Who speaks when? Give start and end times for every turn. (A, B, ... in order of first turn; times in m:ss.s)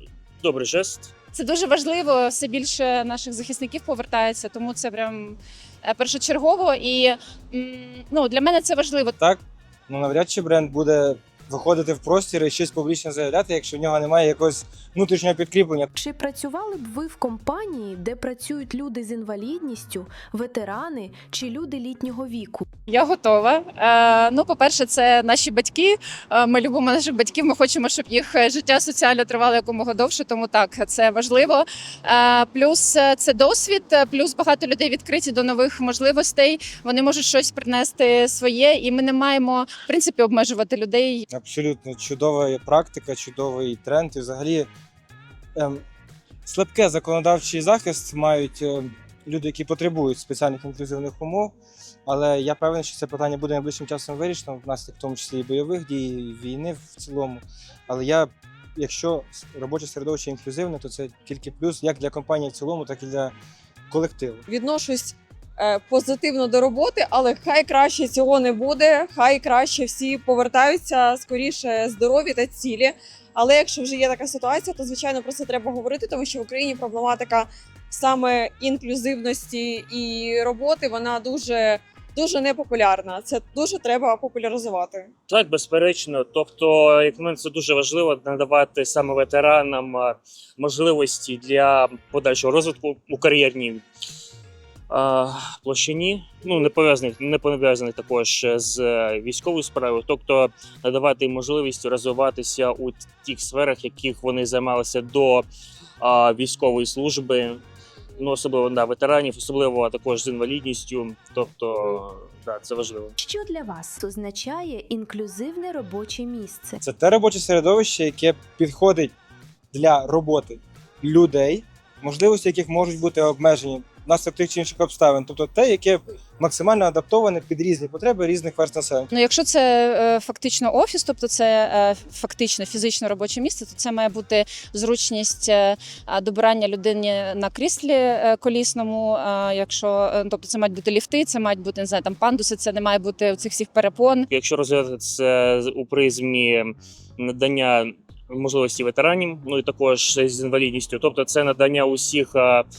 0:00.4-0:01.1 A
0:01.3-0:09.2 B
0:09.2-0:15.9 C
0:16.0-0:22.7 D
0:22.9-0:41.3 B
0:41.3-0:44.7 C
0:45.6-0:45.8 C
0:46.5-0:51.6 C
0:52.1-1:03.3 C
1:03.9-1:04.4 C
1:04.5-1:25.1 E
1:25.3-1:33.8 A
1:34.9-1:45.5 A
1:46.0-1:47.6 A
1:48.2-1:53.1 A
1:53.2-1:56.8 D
1:56.8-1:59.1 C
1:59.7-2:09.1 C
2:09.1-2:24.3 B
2:24.3-2:32.6 A